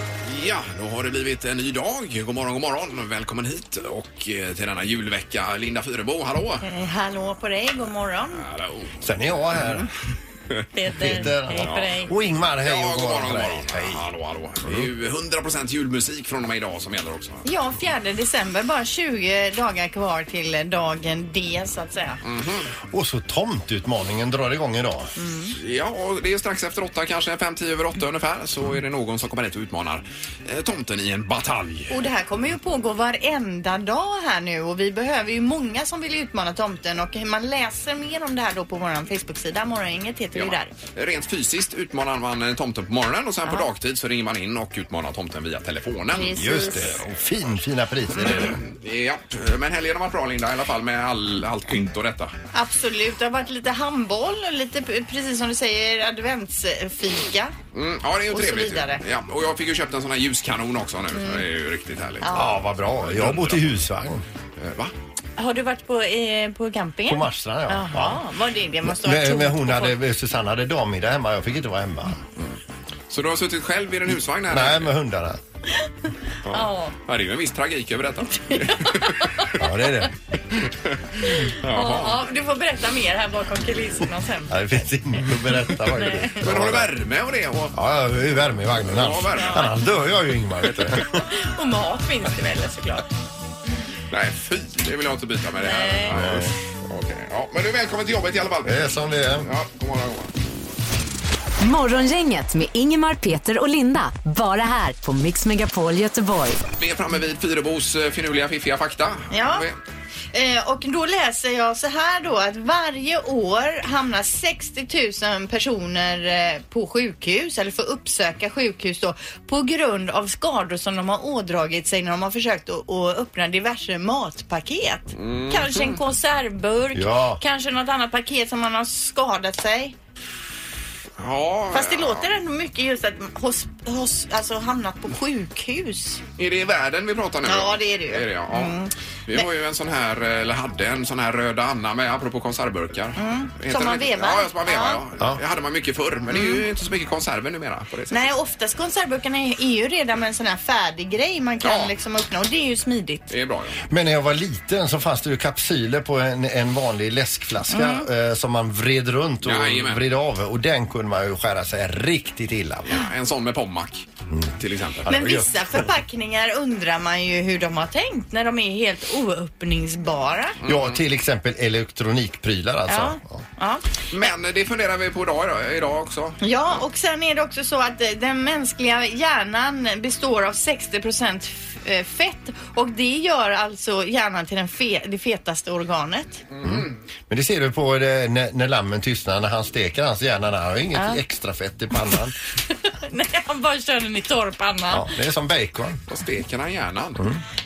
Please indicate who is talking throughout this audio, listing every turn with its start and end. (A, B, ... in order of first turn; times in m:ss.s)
0:00.2-0:06.6 A
0:06.6-0:08.4 B
0:08.3-0:09.0 A
0:09.0-0:09.9 C
0:10.7-0:12.1 B
0:10.9-0:14.0 C
0:11.5-0:11.9 A
0:12.6-0:17.4 A
0:14.6-0:14.9 C
0:17.4-0:22.2 B
0:22.2-0:22.7 A
0:22.9-0:25.1 C
0:25.2-0:25.5 B
0:25.6-0:32.0 A
0:31.9-0:40.7 B
0:40.3-0:46.9 A
0:46.1-0:47.0 B
0:46.3-0:48.6 C
0:48.1-0:52.3 A
0:52.5-0:57.5 B
0:57.7-1:03.8 A
0:58.3-0:59.0 B
1:01.1-1:01.4 B
1:02.2-1:02.5 B
1:02.3-1:04.2 C
1:04.6-1:04.9 A
1:05.4-1:10.0 B
1:07.1-1:08.2 C
1:08.8-1:12.2 C
1:13.1-1:14.9 A
1:14.5-1:15.4 C
1:16.4-1:19.6 A
1:16.5-1:16.9 B
1:18.5-1:19.5 B
1:19.6-1:20.1 C
1:20.6-1:22.2 A
1:21.4-1:24.9 B
1:24.5-1:26.9 C
1:25.9-1:26.4 B
1:26.4-1:27.7 A
1:27.7-1:31.2 C
1:28.8-1:29.8 A
1:29.4-1:29.7 B
1:30.8-1:31.0 A
1:31.3-1:33.0 B
1:34.1-1:38.8 A
1:35.6-1:36.2 B
1:36.1-1:36.6 C
1:38.6-1:39.5 C
1:39.4-1:40.3 A
1:41.6-1:46.6 D
1:46.8-1:49.7 A
1:49.3-1:49.6 B
1:50.3-2:09.9 B
2:05.1-2:06.0 A
2:06.9-2:07.4 C
2:11.2-2:12.3 A
2:11.7-2:16.2 B
2:16.4-2:28.3 A
2:17.4-2:19.5 B
2:23.2-2:25.0 B
2:26.3-2:26.6 B
2:28.1-2:33.3 B
2:31.6-2:31.9 A
2:33.3-2:33.8 A
2:33.9-2:43.0 C
2:37.7-2:38.1 B
2:39.4-2:40.0 A
2:42.9-2:45.1 A
2:44.3-2:45.9 C
2:45.1-2:50.6 B
2:50.6-2:51.0 A
2:50.6-2:53.4 C
2:52.9-2:54.3 B
2:54.1-2:56.4 A
2:56.4-3:06.4 B
3:06.5-3:06.9 A
3:06.6-3:12.3 C
3:10.9-3:11.2 B
3:12.9-3:15.1 B
3:14.9-3:16.0 C
3:16.1-3:17.3 A